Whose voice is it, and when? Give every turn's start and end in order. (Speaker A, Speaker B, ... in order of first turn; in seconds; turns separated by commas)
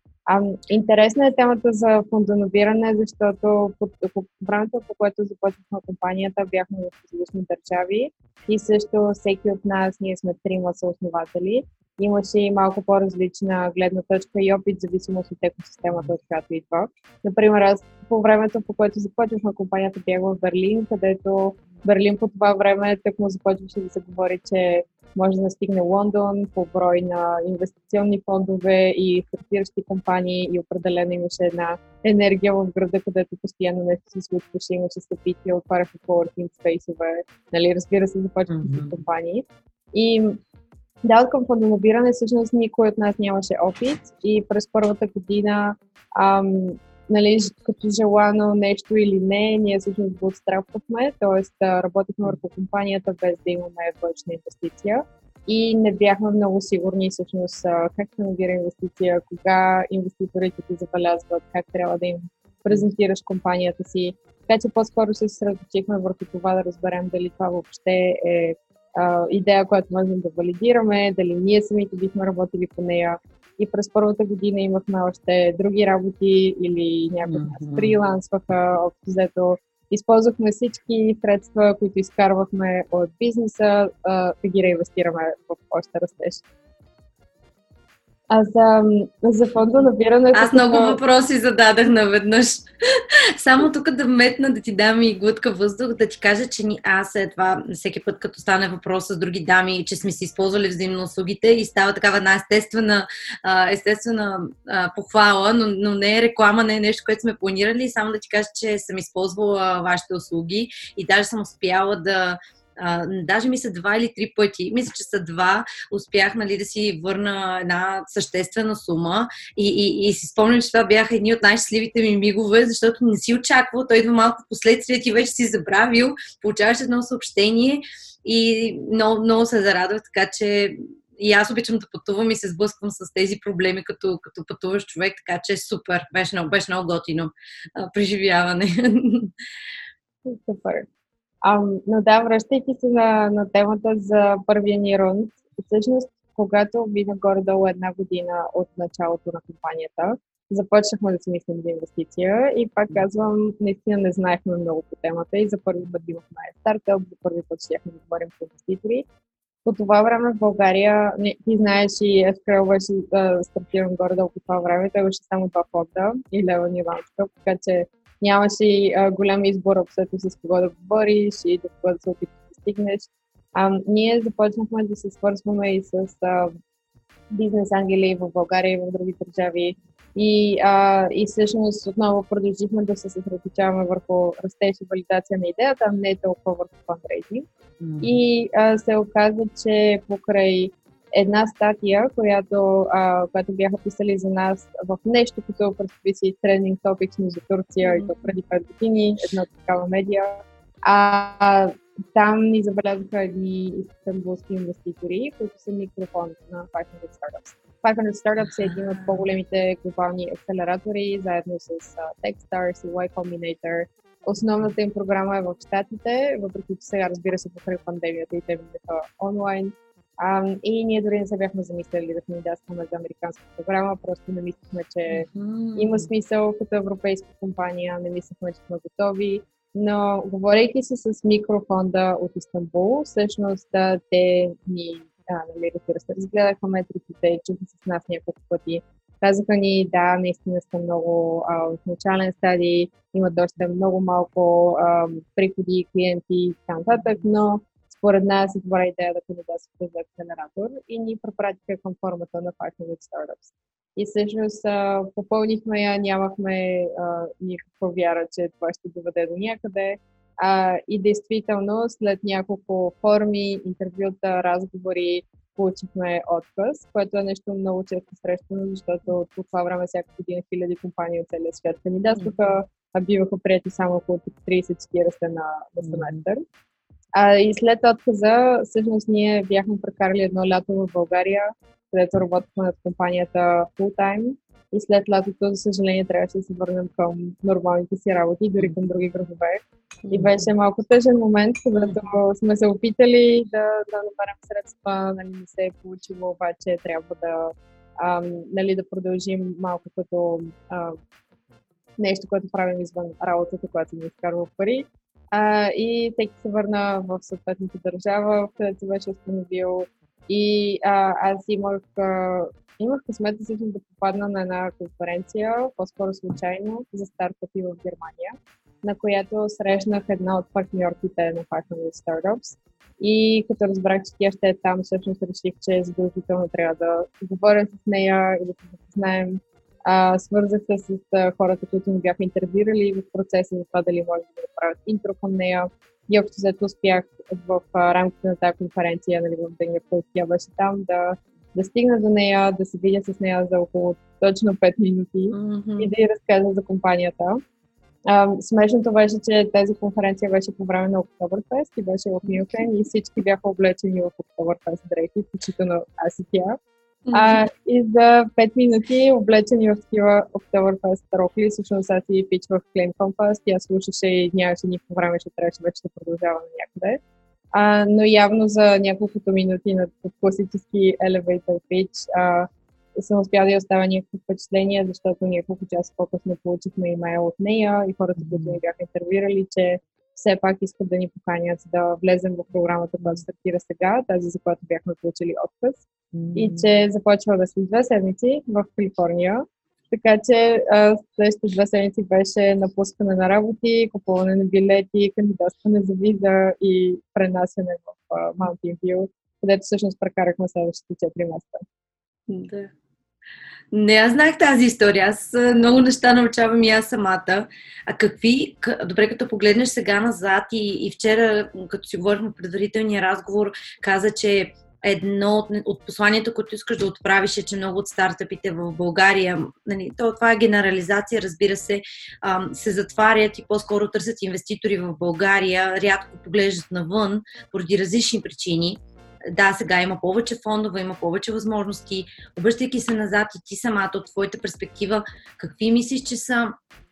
Speaker A: 0.3-40.4, Speaker B: 38.5-38.9, Speaker A: 41.0-86.4, Speaker B: 77.2-77.9, Speaker A: 88.3-91.0, Speaker B: 90.3-139.3, Speaker A: 140.2-140.9, Speaker A: 141.4-159.1, Speaker A: 159.6-176.6, Speaker A: 177.3-187.5, Speaker B: 187.8-188.2, Speaker A: 188.0-276.4, Speaker B: 197.8-198.3, Speaker B: 208.7-209.2, Speaker B: 225.1-226.1, Speaker B: 275.8-276.2, Speaker A: 277.1-301.0, Speaker B: 290.1-290.4, Speaker B: 291.8-292.1, Speaker A: 302.0-347.4, Speaker B: 345.3-345.9, Speaker A: 348.1-356.6, Speaker B: 352.2-352.5, Speaker B: 357.1-357.4, Speaker A: 357.1-367.0, Speaker A: 367.5-401.6, Speaker B: 378.2-378.6, Speaker B: 386.1-386.7, Speaker B: 402.3-402.7, Speaker B: 403.7-436.5